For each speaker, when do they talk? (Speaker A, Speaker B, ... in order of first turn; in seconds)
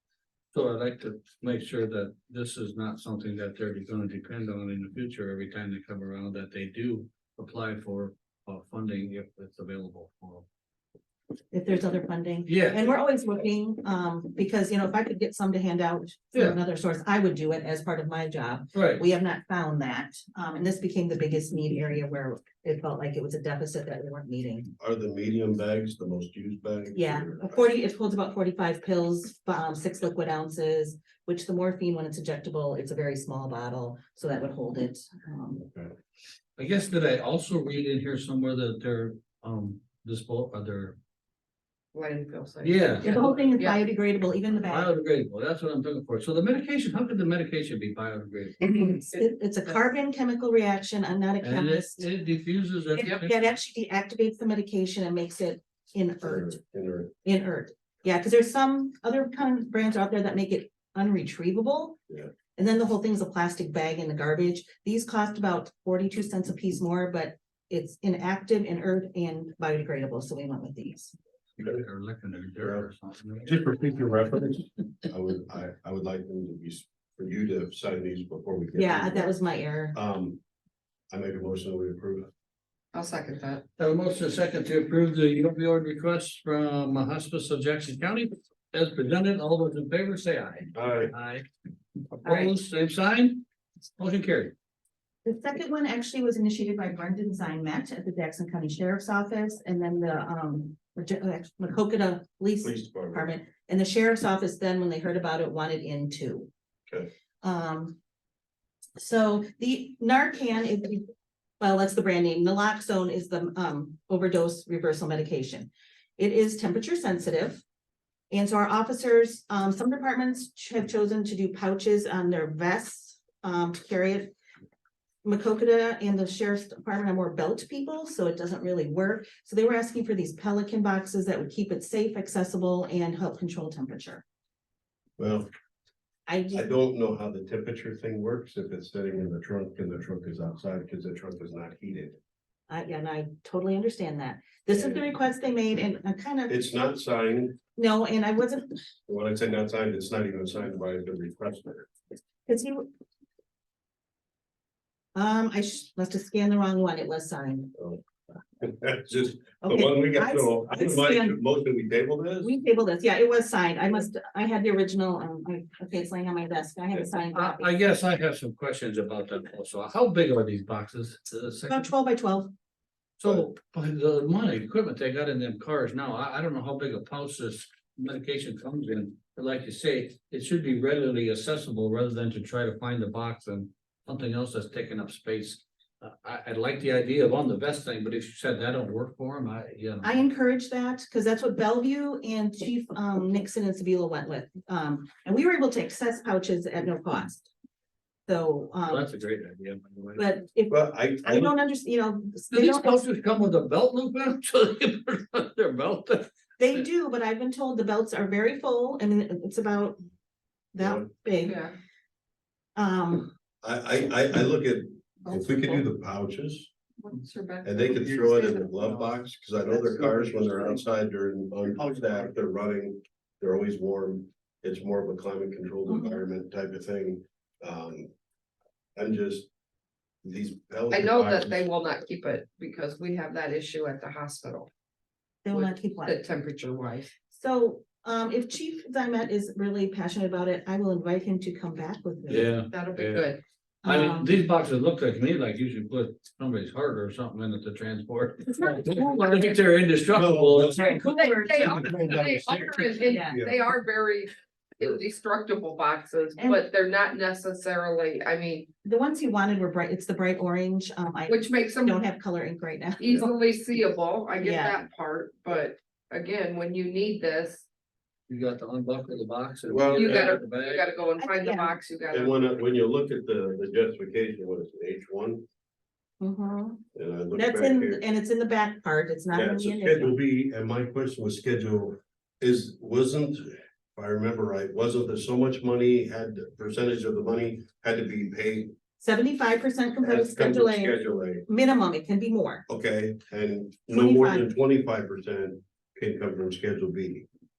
Speaker A: 0.5-10.4, 12.5-12.9, 18.7-19.0, 36.6-41.0, 42.6-43.3, 44.6-48.6, 51.4-53.4, 71.6-73.6, 83.8-91.4, 92.2-93.4, 94.0-94.5, 167.2-171.9, 173.2-190.2, 198.8-200.2, 202.5-206.3, 242.3-243.3, 243.8-252.3, 268.3-270.9
Speaker B: 11.5-24.7, 26.9-35.6, 43.0-44.9, 48.7-52.0, 53.0-56.6, 57.2-62.0, 62.5-71.1, 78.7-80.0, 92.2-92.5, 95.2-106.5, 107.4-108.0, 109.0-117.6, 118.3-124.3, 125.2-134.2, 136.3-136.7, 142.7-146.6, 147.8-148.7, 152.5-152.9, 155.1-157.7, 159.6-161.4, 162.4-167.7, 171.7-172.5, 190.0-197.5, 198.3-199.1, 200.2-203.1, 206.6-210.0, 210.7-211.6, 212.8-213.3, 225.9-226.2, 235.4-236.2, 237.3-242.5, 243.8-244.4, 253.0-253.4, 256.4-256.6, 258.8-263.3, 264.4-264.8, 271.2-271.7, 276.2-280.2, 289.0-292.6, 293.9-294.4
Speaker C: 24.8-27.6, 35.6-35.9, 56.2-57.1, 72.6-72.9, 73.4-79.3, 79.9-80.4, 81.1-82.3, 90.7-91.1, 102.6-103.3, 135.2-135.5, 136.5-142.2, 144.7-145.1, 146.5-147.6, 149.1-151.9, 158.6-162.5, 200.7-201.5, 210.8-211.1, 213.6-216.7, 217.6-228.1, 228.9-229.5, 230.2-231.6, 250.1-253.6, 269.7-270.4, 272.1-275.4, 276.9-278.0, 279.3-288.7, 290.0-291.4, 292.7-297.3
Speaker D: 41.9-43.8, 49.1-49.8, 82.9-83.6, 211.4-211.7, 215.2-215.8, 217.0-219.2, 230.9-234.7, 235.5-237.1, 242.7-243.4, 250.9-258.7, 261.3-262.0, 263.0-267.6, 269.9-272.4